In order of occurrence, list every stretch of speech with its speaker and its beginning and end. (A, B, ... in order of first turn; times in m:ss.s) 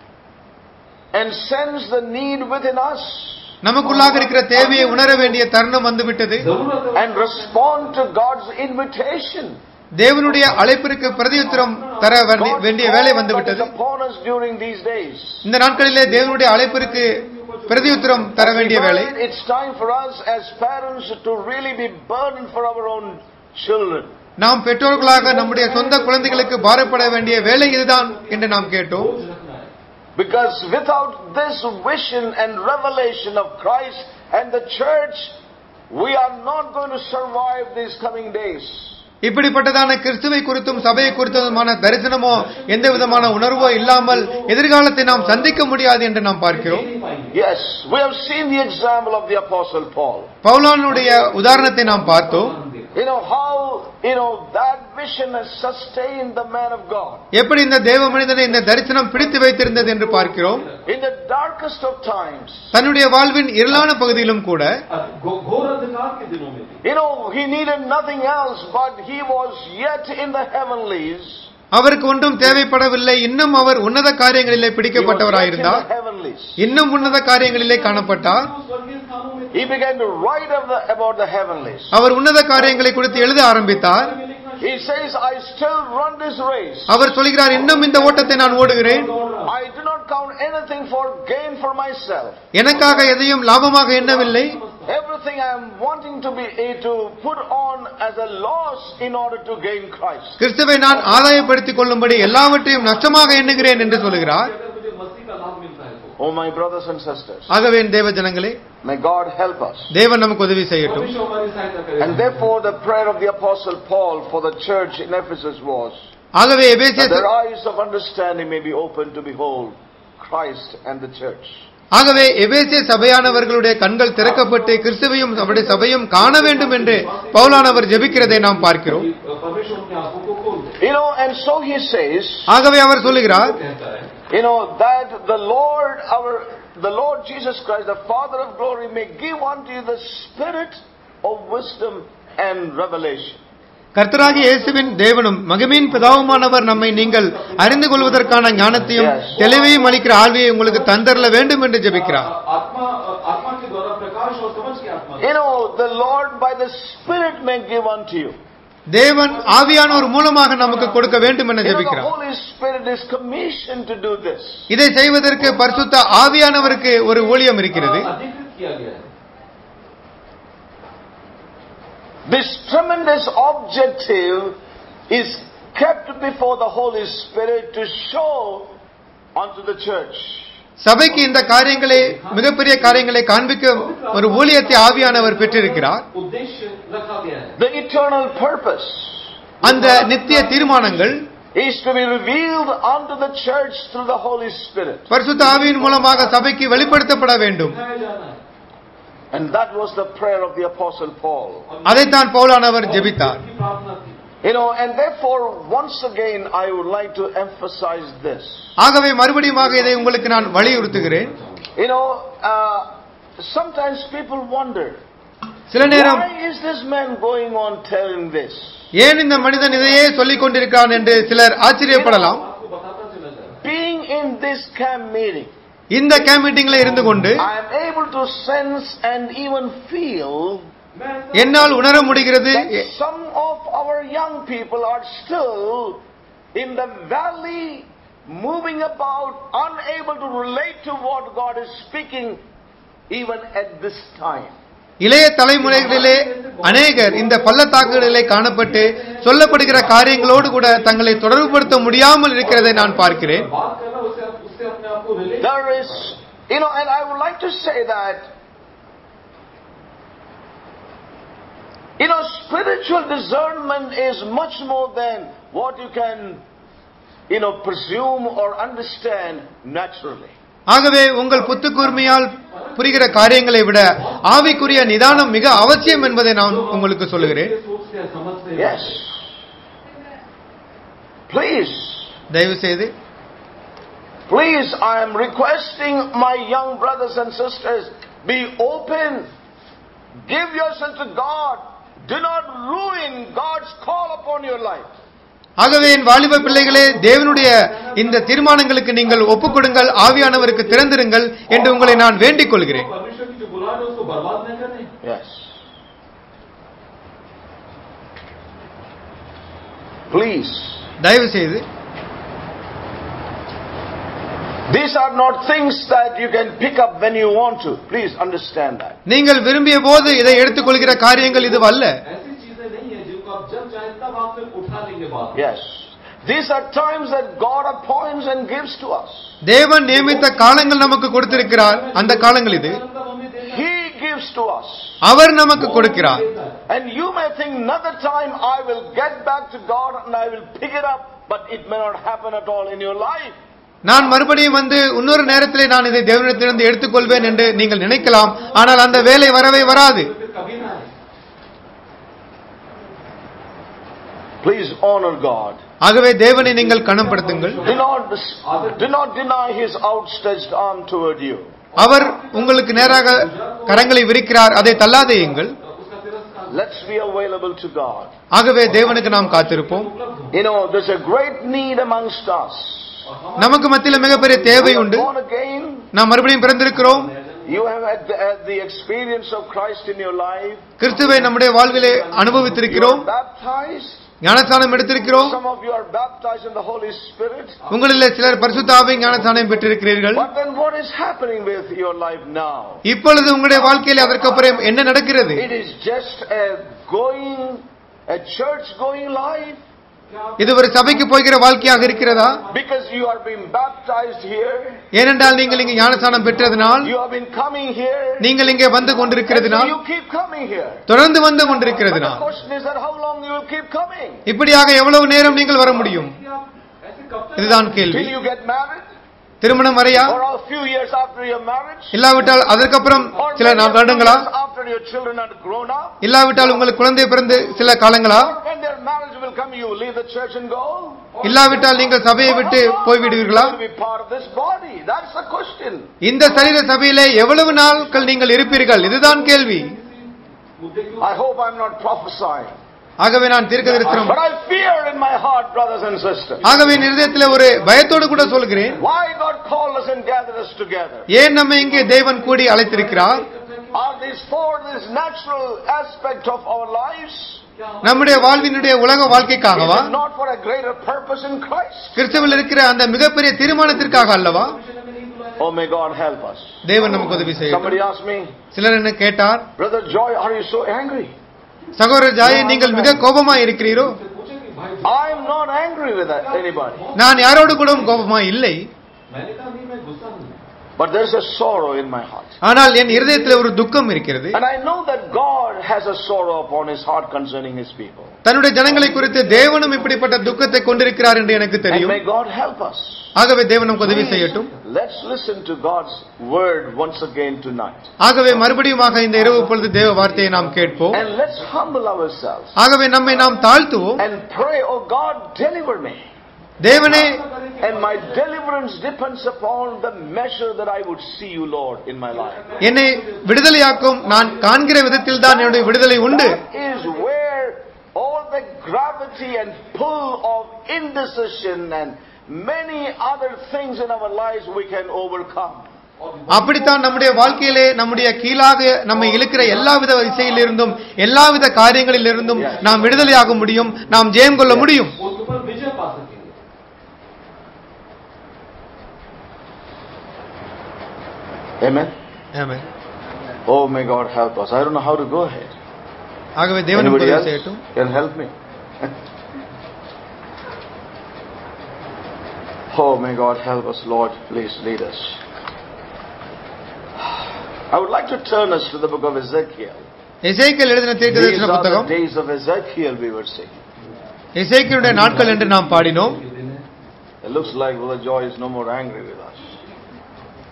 0:01.1-0:03.5 A
0:03.6-0:06.4 B
0:03.8-0:05.4 C
0:06.4-0:08.0 C
0:06.9-0:09.6 A
0:10.0-0:13.7 B
0:10.2-0:12.5 C
0:12.3-0:15.4 A
0:15.4-0:17.2 B
0:15.6-0:18.4 C
0:17.7-0:19.1 B
0:18.4-0:24.1 A
0:24.4-0:29.1 B
0:24.9-0:29.7 C
0:30.2-0:35.3 A
0:35.9-0:39.0 A
0:39.2-0:46.8 B
0:40.7-0:45.7 C
0:46.5-0:47.4 C
0:47.3-0:50.3 A
0:50.4-0:52.5 B
0:50.9-0:53.0 C
0:52.9-0:57.2 A
0:57.3-1:00.6 B
0:58.1-1:00.9 C
1:00.8-1:02.7 A
1:02.7-1:04.7 B
1:03.7-1:04.2 C
1:04.9-1:06.8 C
1:06.8-1:11.5 A
1:11.7-1:15.8 B
1:14.9-1:16.6 A
1:16.6-1:18.5 B
1:16.9-1:19.8 C
1:19.5-1:22.0 A
1:21.9-1:24.1 B
1:22.5-1:25.0 C
1:24.6-1:27.0 A
1:26.9-1:29.1 B
1:27.5-1:29.5 C
1:29.4-1:32.4 A
1:32.5-1:34.6 B
1:32.7-1:33.2 C
1:33.9-1:34.9 C
1:34.8-1:40.4 A
1:40.4-1:44.5 B
1:40.9-1:46.2 C
1:46.2-1:47.5 A
1:47.5-1:48.6 B
1:48.8-1:49.9 A
1:49.9-1:51.1 B
1:50.8-1:52.5 C
1:52.0-1:56.0 A
1:56.4-1:57.3 B
1:57.0-2:01.6 A
2:02.0-2:09.1 B
2:04.2-2:10.8 C
2:10.8-2:12.5 A
2:12.5-2:13.6 B
2:12.9-2:14.1 C
2:14.3-2:23.4 A
2:24.0-2:32.3 B
2:24.2-2:25.0 C
2:25.6-2:35.3 C
2:28.9-2:29.4 A
2:35.2-2:38.4 A
2:38.9-2:42.1 B
2:39.2-2:41.5 C
2:41.6-2:44.7 A
2:44.7-2:48.1 B
2:45.3-2:49.1 C
2:52.2-2:54.6 A
2:55.1-2:58.7 A
2:59.3-3:00.5 A
3:00.8-3:06.0 B
3:01.1-3:07.6 C
3:07.6-3:09.3 A
3:09.6-3:11.2 C
3:09.6-3:11.2 B
3:11.5-3:15.1 A
3:15.1-3:17.8 B
3:15.4-3:18.4 C
3:19.3-3:21.7 A
3:21.7-3:24.2 C
3:21.8-3:23.4 B
3:24.4-3:28.7 A
3:28.8-3:31.3 B
3:29.4-3:31.7 C
3:31.8-3:35.0 A
3:35.7-3:36.3 B
3:35.8-3:38.8 A
3:39.0-3:42.4 B
3:39.4-3:43.6 C
3:43.6-3:45.5 A
3:45.9-3:47.4 B
3:46.4-3:47.4 C
3:47.4-3:50.6 A
3:50.9-3:52.5 C
3:51.3-3:52.8 B
3:52.4-3:56.0 A
3:56.5-4:02.4 A
4:03.1-4:04.5 A
4:05.0-4:13.5 B
4:05.6-4:16.2 C
4:15.4-4:18.3 A
4:22.0-4:26.4 A
4:27.3-4:30.3 A
4:30.7-4:37.5 B
4:31.5-4:39.0 C
4:38.6-4:39.2 A
4:41.3-4:42.1 A
4:42.3-4:42.9 B
4:44.3-4:49.3 A
4:50.3-4:54.9 A
4:55.6-5:02.9 B
4:56.0-5:01.0 C
5:01.5-5:04.9 C
5:05.0-5:05.5 A
5:10.1-5:10.8 A
5:11.0-5:11.6 B
5:14.7-5:19.0 A
5:19.1-5:22.0 B
5:19.9-5:25.4 C
5:25.3-5:29.3 A
5:29.4-5:32.8 B
5:29.9-5:33.6 C
5:33.5-5:35.0 A
5:35.0-5:36.2 B
5:35.5-5:36.6 C
5:36.7-5:43.4 A
5:43.8-5:50.1 B
5:44.7-5:50.9 C
5:54.4-5:55.6 A
5:55.8-5:57.6 B
5:56.4-5:57.9 C
5:57.6-6:01.5 A
5:58.4-5:58.8 C
6:01.7-6:06.7 C
6:01.8-6:05.5 B
6:06.5-6:08.1 A
6:08.3-6:09.9 B
6:08.6-6:10.4 C
6:10.3-6:13.0 A
6:13.0-6:14.7 C
6:13.4-6:15.1 B
6:14.5-6:15.9 A
6:15.9-6:17.1 B
6:16.6-6:17.6 C
6:17.5-6:20.7 A
6:20.8-6:23.0 B
6:20.9-6:23.0 C
6:22.7-6:27.6 A
6:24.2-6:25.4 B
6:27.6-6:30.1 C
6:27.7-6:30.3 B
6:30.1-6:32.8 A
6:32.8-6:35.4 B
6:33.5-6:35.4 C
6:35.3-6:39.6 A
6:40.1-6:42.6 C
6:40.4-6:42.4 B
6:42.5-6:44.9 A
6:44.9-6:46.9 B
6:45.2-6:46.8 C
6:46.8-6:50.8 A
6:48.2-6:49.7 B
6:50.9-6:52.2 B
6:51.4-6:54.2 A
6:54.3-6:56.1 B
6:55.1-6:58.0 C
6:57.4-6:58.1 B
6:57.9-6:58.8 A
6:59.4-7:00.2 B
7:00.0-7:02.1 A
7:01.9-7:04.3 B
7:02.6-7:03.3 C
7:03.1-7:06.0 A
7:06.0-7:08.3 B
7:07.2-7:07.8 C
7:07.8-7:11.1 A
7:11.1-7:12.2 C
7:11.2-7:13.6 B
7:12.2-7:15.9 A
7:16.0-7:19.7 B
7:16.3-7:21.2 C
7:21.0-7:22.6 A
7:23.0-7:24.2 B
7:23.6-7:24.2 C
7:23.9-7:26.5 A
7:26.4-7:28.9 C
7:26.4-7:28.8 B
7:28.8-7:31.1 A
7:31.1-7:33.2 B
7:31.6-7:34.1 C
7:33.7-7:37.4 A
7:37.6-7:39.8 C
7:37.8-7:39.9 B
7:39.5-7:42.0 A
7:42.0-7:44.6 B
7:43.4-7:45.5 C
7:45.4-7:48.3 A
7:46.6-7:47.8 B
7:46.7-7:47.6 C
7:48.5-7:49.5 B
7:49.6-7:51.1 A
7:51.8-7:54.0 B
7:52.2-7:53.0 A
7:52.2-7:55.3 C
7:54.8-7:56.8 A
7:56.2-7:58.1 C
7:56.9-7:58.6 B
7:59.1-8:00.4 C
8:00.8-8:02.4 A
8:02.4-8:04.4 B
8:02.8-8:03.8 C
8:04.3-8:08.2 A
8:08.2-8:12.0 B
8:08.6-8:11.7 C
8:11.7-8:13.1 A
8:13.2-8:14.5 B
8:13.7-8:14.6 C
8:13.8-8:17.9 A
8:18.0-8:21.0 B
8:19.1-8:21.7 C
8:20.9-8:22.6 A
8:22.6-8:24.0 B
8:24.0-8:26.0 A
8:26.6-8:27.2 B
8:26.6-8:28.2 C
8:27.6-8:32.6 A
8:32.1-8:35.6 C
8:32.6-8:36.4 B
8:35.2-8:45.7 A
8:36.6-8:37.1 C
8:46.0-8:48.2 C
8:46.3-8:55.0 B
8:48.9-8:54.2 C
8:52.4-8:52.7 A
8:54.4-8:54.8 A
8:55.0-8:56.4 C
9:01.6-9:01.9 A
9:02.3-9:02.6 B
9:03.4-9:05.5 A
9:06.4-9:07.6 B
9:06.7-9:08.9 A
9:12.7-9:15.2 A
9:17.7-9:19.8 A
9:20.2-9:21.9 B
9:21.0-9:23.6 A
9:24.4-9:26.2 B
9:24.8-9:26.6 C
9:27.2-9:29.6 A